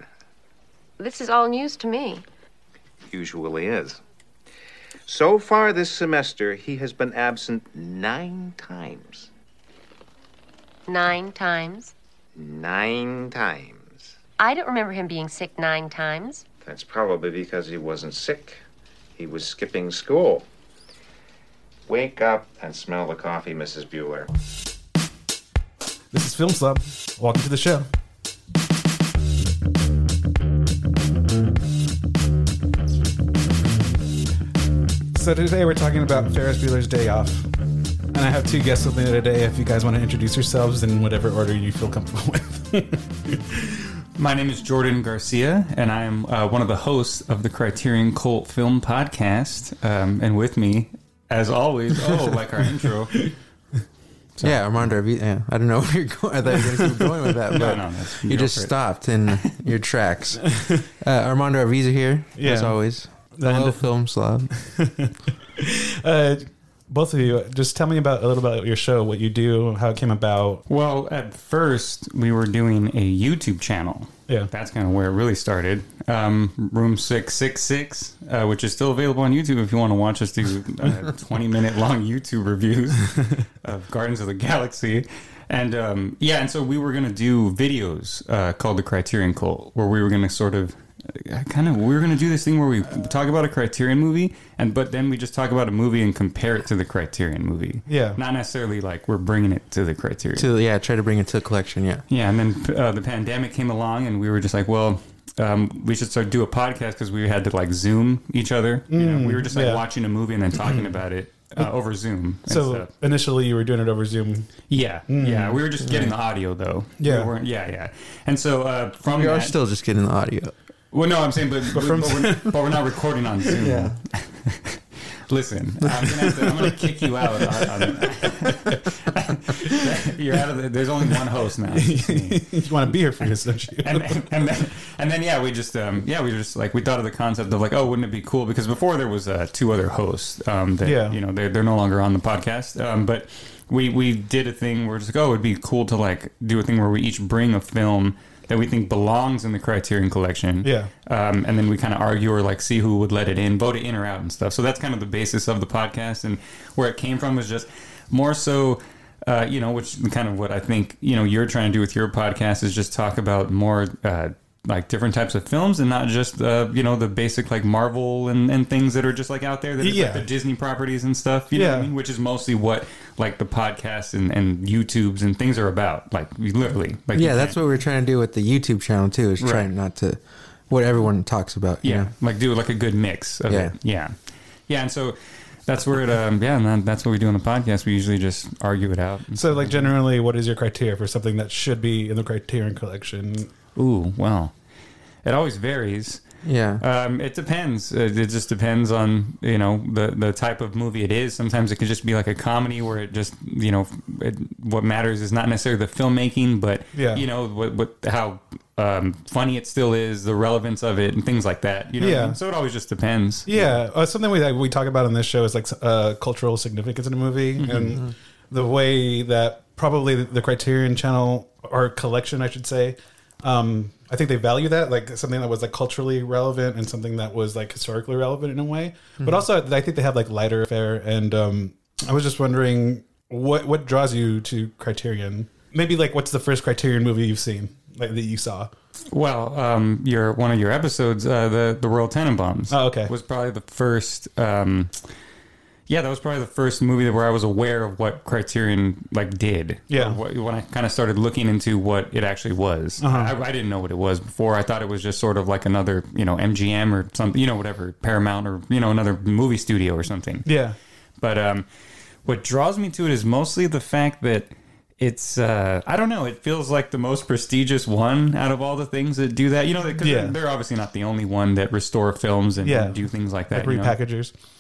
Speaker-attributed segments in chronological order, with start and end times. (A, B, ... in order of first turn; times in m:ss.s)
0:01.0-0:02.2 A
0:03.1-0:04.0 B
0:05.0-0:09.3 B
0:10.9-0:11.9 A
0:12.4-0:14.1 B
0:14.4-0:16.4 A
0:16.6-0:18.6 B
0:19.2-0:20.4 B
0:21.9-0:24.3 B
0:26.1-0:27.9 C
0:35.1-0:37.5 C
0:38.1-0:43.8 C
0:44.2-0:53.3 D
0:54.4-1:04.5 E
0:56.8-0:57.1 C
0:57.5-0:58.8 D
1:00.4-1:00.8 C
1:02.4-1:02.8 C
1:03.4-1:03.9 C
1:04.8-1:10.6 C
1:10.7-1:40.5 D
1:37.9-1:38.2 C
1:40.4-1:42.0 E
1:42.1-1:52.9 D
1:48.9-1:49.8 C
1:50.6-1:50.9 C
1:52.5-1:54.5 C
1:54.7-1:59.6 D
1:55.1-1:55.6 C
1:55.8-1:56.1 E
1:57.0-1:57.3 C
1:59.0-2:00.5 E
2:00.9-2:12.5 D
2:01.7-2:02.8 C
2:03.6-2:04.0 E
2:11.7-2:14.3 C
2:13.8-2:57.6 D
2:20.8-2:21.2 C
2:30.6-2:30.9 C
2:49.8-2:50.2 C
2:51.5-2:51.9 C
2:57.1-3:02.1 E
2:59.4-2:59.7 D
3:01.8-3:04.1 D
3:03.5-3:03.7 E
3:04.7-3:09.9 D
3:09.4-3:13.5 C
3:13.7-3:14.5 D
3:15.2-3:16.2 D
3:16.4-3:16.8 E
3:16.8-3:33.5 D
3:26.9-3:27.2 C
3:32.0-3:32.4 C
3:33.5-3:58.7 C
3:37.6-3:38.0 D
3:59.1-4:05.0 D
4:02.7-4:03.1 C
4:05.9-4:20.5 D
4:09.9-4:10.2 C
4:13.0-4:13.3 C
4:20.4-4:20.8 C
4:21.2-4:21.6 D
4:22.2-4:34.0 D
4:30.0-4:30.4 C
4:32.6-4:34.3 C